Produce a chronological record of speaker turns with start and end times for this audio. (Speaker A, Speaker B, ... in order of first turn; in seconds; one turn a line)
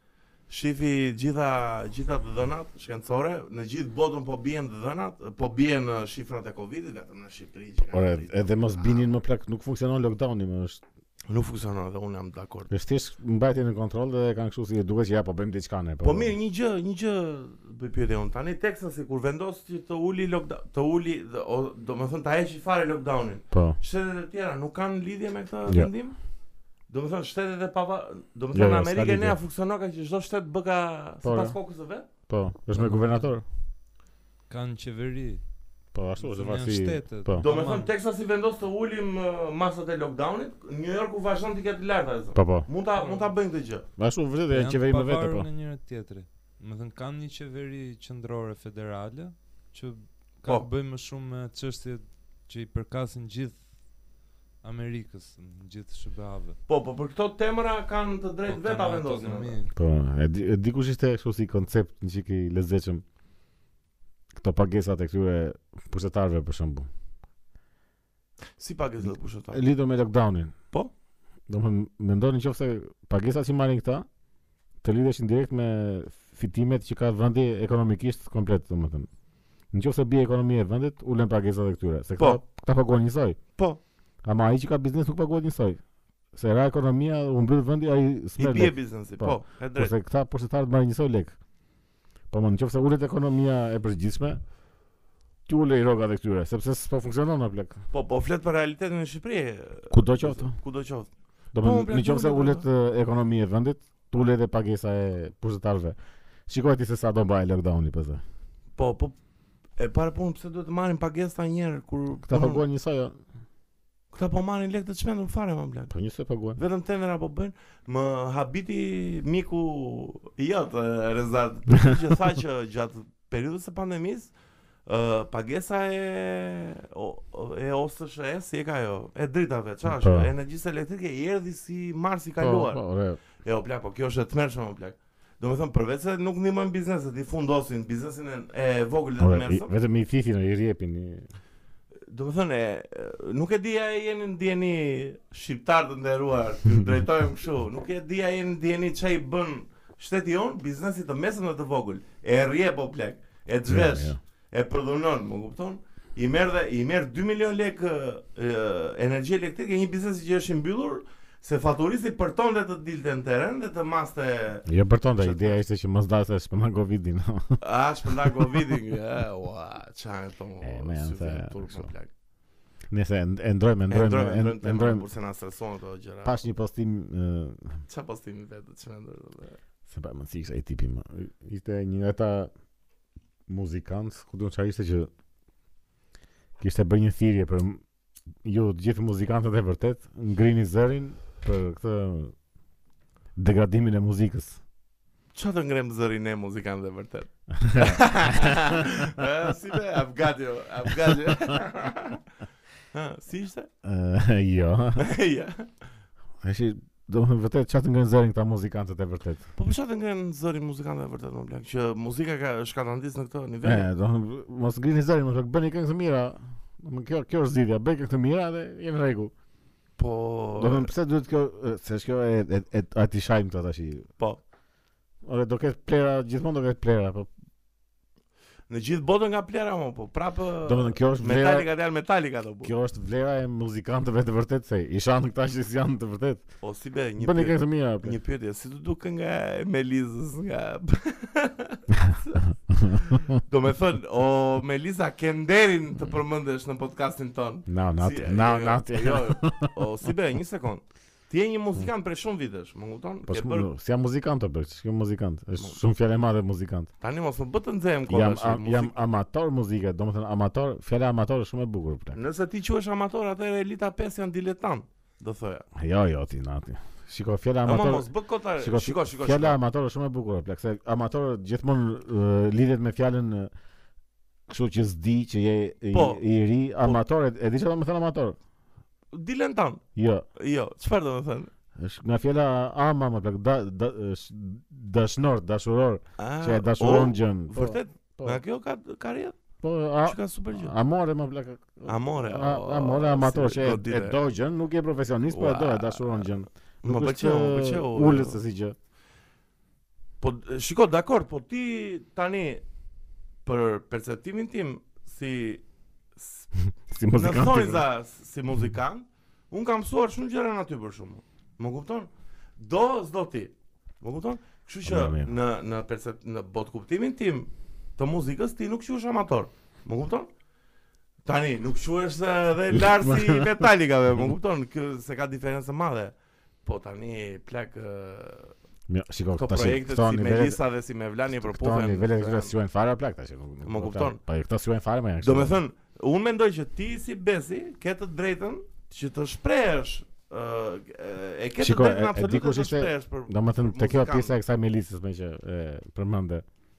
Speaker A: 0.5-9.0
Speaker B: 7.9-10.8
Speaker A: 11.3-12.7
Speaker B: 12.7-16.3
Speaker A: 16.0-26.2
Speaker B: 23.5-23.8
Speaker A: 26.9-32.1
Speaker B: 28.5-29.4
Speaker B: 31.2-31.6
Speaker B: 32.3-33.4
Speaker C: 32.7-33.3
Speaker C: 34.5-35.5
Speaker B: 35.9-37.4
Speaker C: 36.2-37.9
Speaker A: 37.4-43.9
Speaker B: 42.4-42.7
Speaker C: 43.0-43.3
Speaker B: 44.0-45.5
Speaker C: 44.5-53.7
Speaker C: 54.6-56.6
Speaker A: 56.7-59.6
Speaker C: 58.5-59.7
Speaker B: 59.8-63.0
Speaker B: 64.3-66.9
Speaker A: 68.6-69.6
Speaker B: 69.5-70.5
Speaker B: 71.5-74.1
Speaker B: 74.8-79.1
Speaker B: 79.7-83.4
Speaker B: 84.2-85.8
Speaker B: 86.3-91.4
Speaker A: 88.4-89.9
Speaker B: 92.3-94.4
Speaker B: 95.5-97.8
Speaker A: 97.9-102.7
Speaker B: 99.9-100.6
Speaker B: 101.5-106.0
Speaker B: 106.5-108.2
Speaker A: 108.8-109.2
Speaker A: 109.8-112.6
Speaker B: 112.3-113.2
Speaker A: 114.1-115.9
Speaker B: 115.9-116.6
Speaker A: 116.6-124.3
Speaker A: 124.9-132.8
Speaker B: 129.9-130.3
Speaker B: 132.4-133.2
Speaker A: 133.4-139.7
Speaker B: 139.2-141.3
Speaker A: 142.1-165.6
Speaker B: 153.7-154.2
Speaker B: 164.7-167.6
Speaker A: 167.6-172.1
Speaker B: 170.6-171.9
Speaker B: 172.9-175.1
Speaker A: 173.9-176.4
Speaker B: 176.2-177.8
Speaker A: 177.9-179.6
Speaker B: 179.9-182.5
Speaker B: 183.5-185.1
Speaker B: 186.6-187.8
Speaker B: 188.4-192.3
Speaker B: 193.4-194.6
Speaker A: 195.3-202.2
Speaker B: 197.5-198.7
Speaker A: 202.9-203.7
Speaker B: 203.8-205.1
Speaker A: 205.0-205.7
Speaker B: 206.4-209.4
Speaker A: 209.6-213.9
Speaker B: 213.6-219.3
Speaker A: 220.0-220.9
Speaker B: 220.6-224.1
Speaker B: 225.2-227.3
Speaker A: 228.7-232.7
Speaker B: 230.7-231.7
Speaker B: 232.6-236.5
Speaker A: 236.6-253.7
Speaker B: 237.2-238.2
Speaker B: 242.7-243.0
Speaker B: 247.7-249.8
Speaker B: 253.3-256.9
Speaker A: 257.0-259.0
Speaker B: 258.1-262.2
Speaker A: 262.1-265.7
Speaker B: 265.8-273.5
Speaker A: 267.6-269.6
Speaker B: 274.5-278.4
Speaker A: 275.9-276.2
Speaker A: 279.1-279.8
Speaker B: 280.0-280.3
Speaker A: 280.4-281.5
Speaker B: 281.8-288.4
Speaker A: 286.2-289.4
Speaker B: 289.6-298.8
Speaker A: 290.0-290.8
Speaker A: 291.9-294.2
Speaker A: 295.3-296.3
Speaker A: 296.8-298.4
Speaker A: 300.2-302.6
Speaker A: 303.4-305.6
Speaker A: 306.2-306.5
Speaker B: 306.9-307.9
Speaker A: 307.1-320.3
Speaker B: 314.9-315.3
Speaker A: 321.2-328.6
Speaker B: 322.8-323.4
Speaker B: 328.9-330.6
Speaker A: 329.4-332.5
Speaker B: 331.3-335.6
Speaker A: 333.6-334.2
Speaker A: 335.2-344.3
Speaker B: 341.6-346.4